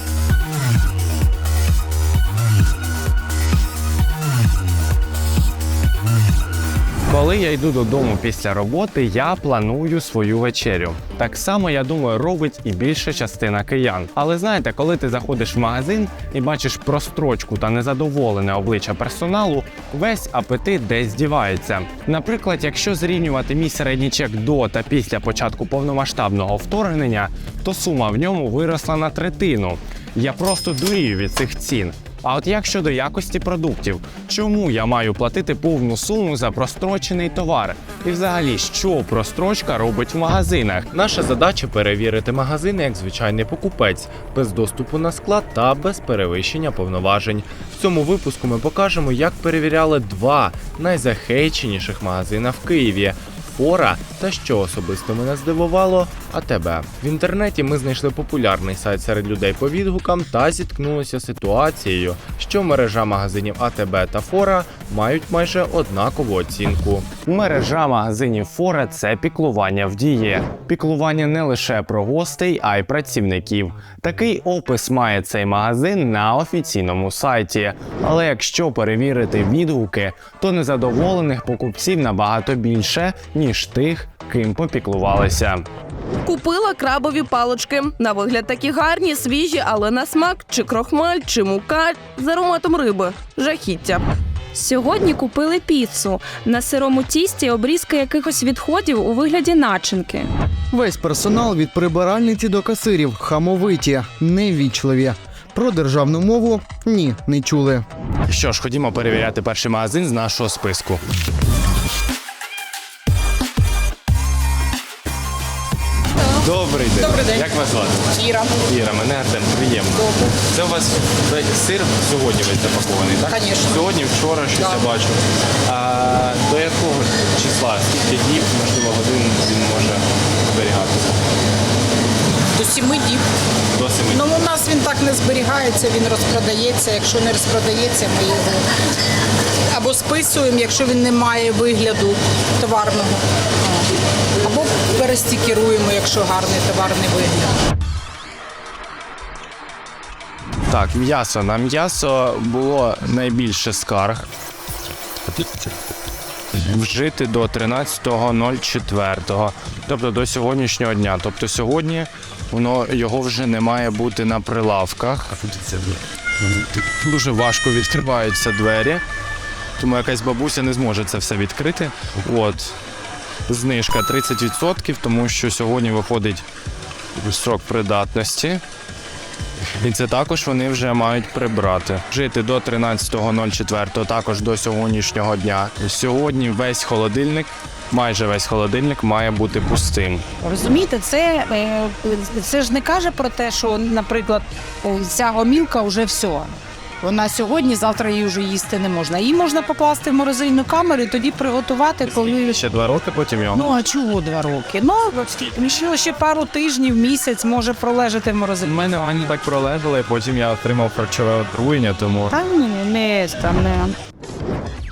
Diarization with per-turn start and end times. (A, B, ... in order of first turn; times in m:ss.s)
0:07.1-0:40.9 A
0:40.9-1:07.1 B
1:07.2-1:25.7 A
1:26.2-1:34.1 C
1:34.6-1:40.3 D
1:40.7-1:47.8 E
1:48.3-1:51.0 A
1:56.4-2:11.2 A
1:57.0-1:57.5 F
1:58.1-1:58.5 F
2:03.3-2:03.8 F
2:04.6-2:04.8 F
2:12.6-2:13.2 F
2:13.7-2:14.3 A
2:14.1-2:18.6 F
2:19.7-2:23.8 F
2:24.4-2:27.5 F
2:30.7-2:34.3 A
2:36.5-2:45.8 A
2:46.8-2:49.0 A
2:49.8-2:52.8 A
2:53.5-2:56.4 A
2:57.2-2:58.6 A
2:59.8-3:10.2 A
3:10.4-3:22.2 G
3:22.0-3:23.7 A
3:23.5-3:28.7 G
3:28.6-3:32.4 A
3:32.3-3:34.0 G